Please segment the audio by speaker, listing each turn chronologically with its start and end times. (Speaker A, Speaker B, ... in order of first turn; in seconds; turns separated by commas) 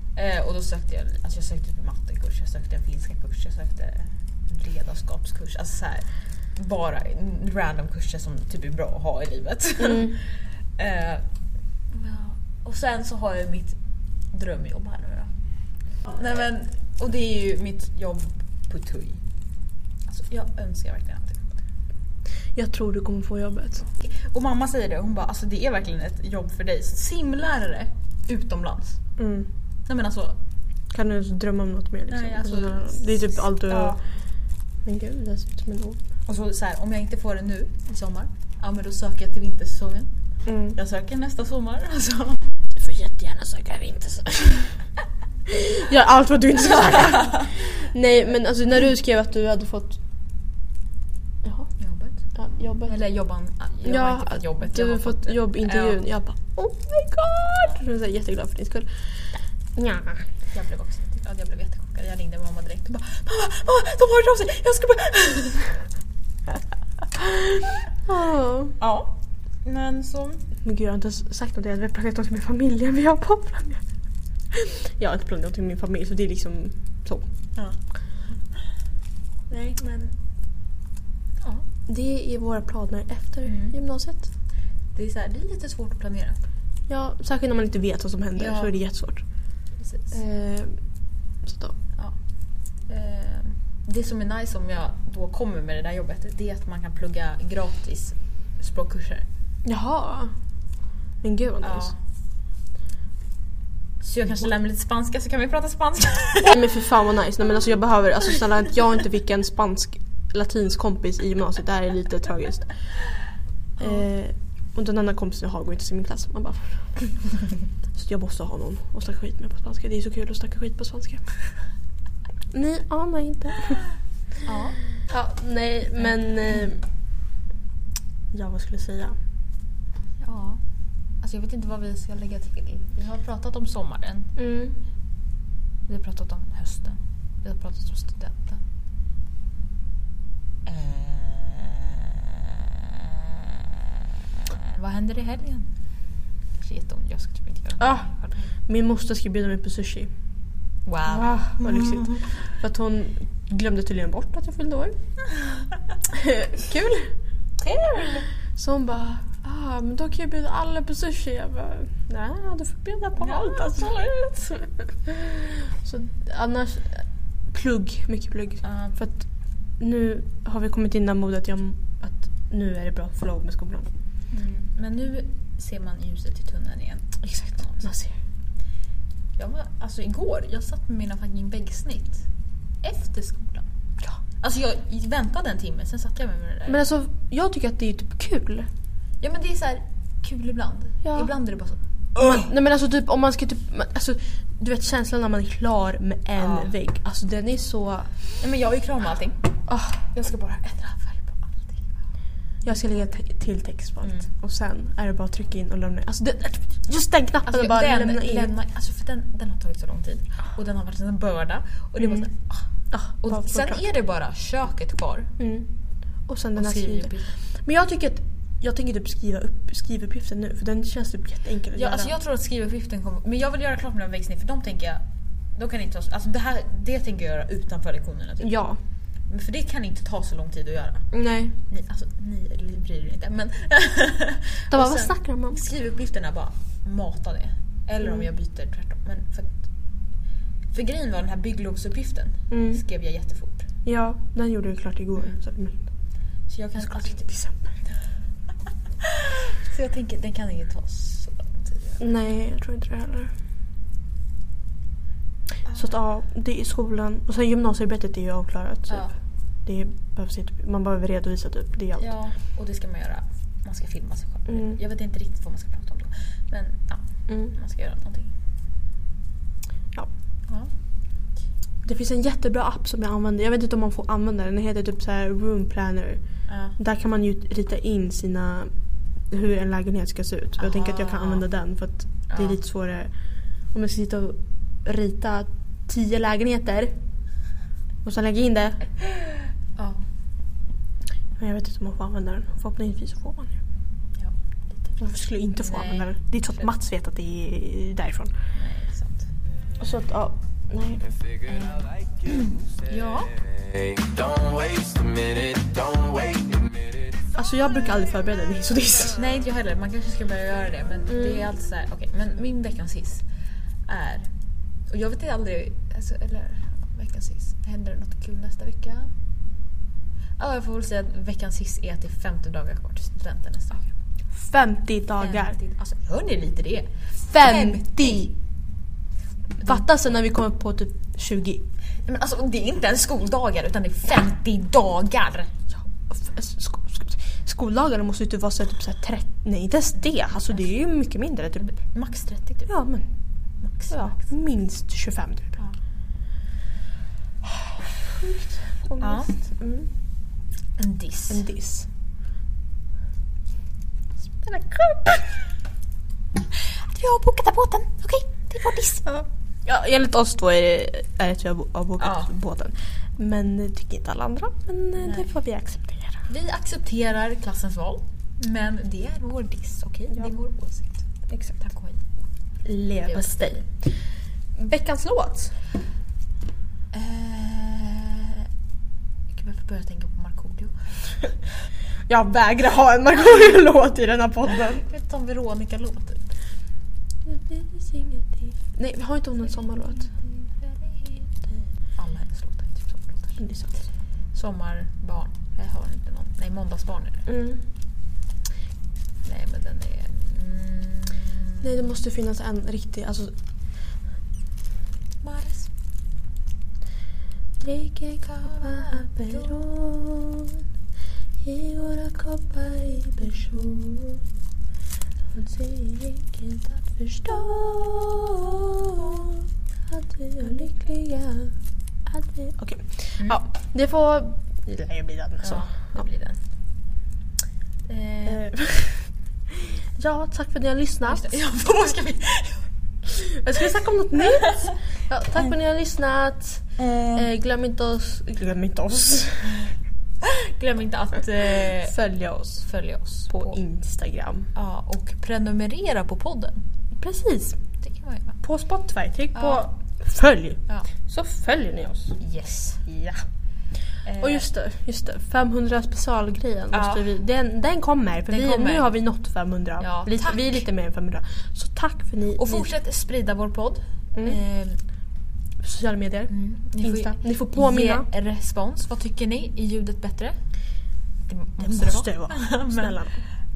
Speaker A: 0.2-11.2, Speaker B: 9.8-10.2, Speaker A: 11.9-13.8, Speaker A: 14.3-15.3, Speaker A: 16.1-19.2, Speaker A: 20.1-21.6, Speaker B: 22.6-23.9, Speaker A: 24.0-29.0, Speaker B: 29.2-29.5, Speaker A: 29.9-30.4, Speaker B: 30.9-34.0, Speaker A: 32.1-34.0, Speaker B: 34.8-36.0, Speaker A: 36.3-40.1, Speaker B: 40.5-40.8, Speaker A: 40.8-42.4, Speaker B: 42.8-44.8, Speaker B: 45.5-50.0, Speaker B: 51.4-51.7, Speaker A: 51.8-52.2, Speaker B: 52.4-53.0, Speaker A: 52.8-56.0, Speaker B: 53.8-60.3, Speaker A: 60.5-65.8, Speaker B: 68.1-68.8, Speaker A: 68.8-70.4, Speaker B: 70.6-73.8, Speaker B: 74.5-77.3, Speaker A: 79.5-80.1, Speaker B: 81.9-84.3, Speaker A: 83.5-83.8, Speaker A: 85.0-86.4, Speaker B: 86.9-89.2, Speaker A: 88.4-88.7, Speaker A: 89.8-90.2, Speaker B: 90.1-90.8, Speaker B: 91.4-91.8, Speaker A: 92.9-99.3, Speaker B: 99.7-100.3, Speaker B: 101.2-101.9, Speaker A: 101.6-101.9, Speaker A: 104.0-106.6, Speaker B: 106.5-112.7, Speaker B: 113.8-117.3, Speaker B: 117.9-121.5, Speaker B: 122.5-123.8, Speaker A: 124.5-124.8, Speaker B: 125.1-126.8, Speaker B: 128.3-129.2, Speaker A: 130.2-130.6, Speaker A: 131.2-134.3, Speaker B: 134.4-134.8, Speaker A: 135.9-138.6, Speaker A: 140.7-143.9, Speaker A: 144.5-145.7, Speaker A: 146.6-148.5, Speaker B: 147.8-148.1, Speaker B: 148.7-150.1, Speaker A: 150.9-152.3, Speaker B: 151.1-155.0, Speaker B: 156.1-157.1, Speaker A: 157.6-158.3, Speaker B: 158.6-163.9, Speaker A: 163.2-164.6, Speaker B: 165.1-169.2, Speaker A: 168.6-169.0, Speaker B: 169.8-173.9, Speaker A: 174.3-177.9, Speaker B: 177.2-178.2, Speaker A: 179.4-182.2, Speaker A: 182.8-183.7, Speaker A: 184.4-186.8, Speaker B: 186.7-188.7, Speaker A: 189.2-192.4, Speaker B: 191.1-191.3, Speaker B: 192.2-198.1, Speaker A: 196.4-196.7, Speaker A: 198.4-199.5, Speaker B: 199.7-200.1, Speaker A: 200.1-201.9, Speaker B: 202.7-208.5, Speaker A: 207.5-212.7, Speaker B: 212.9-213.8, Speaker A: 213.2-215.3, Speaker B: 215.4-215.7, Speaker B: 216.3-222.1, Speaker A: 216.6-217.4, Speaker A: 221.7-225.0, Speaker A: 225.6-228.5, Speaker B: 228.4-228.8, Speaker A: 229.3-231.0, Speaker B: 231.1-231.5, Speaker A: 231.7-239.6, Speaker B: 234.7-235.6, Speaker A: 240.7-243.7, Speaker B: 242.5-242.8, Speaker B: 243.8-245.8, Speaker A: 246.5-247.3, Speaker B: 246.8-247.7, Speaker A: 249.0-252.0, Speaker B: 252.0-253.3, Speaker A: 255.7-255.9, Speaker B: 255.8-259.1, Speaker A: 258.9-259.1, Speaker B: 259.6-262.1, Speaker A: 262.0-268.3, Speaker B: 264.5-264.8, Speaker B: 271.8-276.2, Speaker A: 276.5-276.8, Speaker B: 276.8-278.7, Speaker B: 279.3-283.1, Speaker A: 280.6-281.5, Speaker A: 282.3-282.6, Speaker B: 283.7-287.0, Speaker B: 288.0-288.9, Speaker A: 289.8-290.0, Speaker B: 291.4-293.6, Speaker A: 294.2-295.1, Speaker B: 295.0-298.4, Speaker A: 295.6-296.7, Speaker A: 298.5-299.3, Speaker B: 299.8-301.1, Speaker A: 301.5-303.3, Speaker C: 303.8-306.8, Speaker B: 307.4-309.2, Speaker A: 309.2-313.2, Speaker B: 311.1-311.5, Speaker A: 313.9-314.3, Speaker A: 314.9-319.1, Speaker A: 320.4-323.9, Speaker B: 324.3-325.6, Speaker A: 325.2-328.3, Speaker B: 327.2-328.3, Speaker A: 329.6-329.9, Speaker B: 329.6-331.6, Speaker A: 332.1-335.5, Speaker B: 336.1-341.6, Speaker A: 341.6-342.7, Speaker B: 342.7-343.1, Speaker A: 343.6-344.3, Speaker B: 343.9-345.6, Speaker B: 347.7-349.9, Speaker A: 349.0-349.3, Speaker A: 350.8-351.4, Speaker B: 351.3-351.9, Speaker B: 354.4-355.2, Speaker A: 356.6-359.1, Speaker B: 359.1-366.3, Speaker A: 362.0-362.3, Speaker A: 365.0-365.3, Speaker A: 366.3-371.1, Speaker B: 371.3-371.6, Speaker A: 371.6-372.0, Speaker B: 372.6-373.6, Speaker A: 373.1-373.7, Speaker B: 374.6-375.6, Speaker A: 376.9-378.5, Speaker A: 379.3-380.9, Speaker B: 382.1-384.8, Speaker A: 384.5-386.2, Speaker B: 387.3-390.1, Speaker A: 390.2-391.3, Speaker A: 391.9-393.4, Speaker B: 393.4-393.7, Speaker A: 394.3-397.2, Speaker B: 397.3-397.6, Speaker A: 399.2-402.0, Speaker B: 401.6-403.3, Speaker A: 405.2-405.7, Speaker B: 407.6-410.6, Speaker A: 408.3-409.6, Speaker B: 411.4-414.2, Speaker B: 415.3-421.6, Speaker B: 422.1-426.0, Speaker A: 425.4-426.4, Speaker A: 427.9-428.4, Speaker B: 428.3-431.3, Speaker A: 431.1-432.6, Speaker B: 433.1-439.7, Speaker A: 436.8-437.3, Speaker A: 440.2-441.9, Speaker B: 441.6-442.7, Speaker A: 442.6-443.6, Speaker B: 443.3-444.5, Speaker A: 444.6-446.6, Speaker B: 447.0-447.6, Speaker A: 447.8-448.4, Speaker B: 448.4-452.2, Speaker A: 449.4-449.6, Speaker A: 452.2-452.8, Speaker B: 452.8-453.2, Speaker A: 454.1-454.5, Speaker B: 454.2-462.7, Speaker A: 456.7-457.1, Speaker A: 458.3-458.9, Speaker A: 459.8-460.7, Speaker A: 462.4-464.8, Speaker B: 464.1-464.4, Speaker B: 465.6-468.1, Speaker A: 466.3-470.4, Speaker A: 471.3-473.0, Speaker B: 471.6-473.2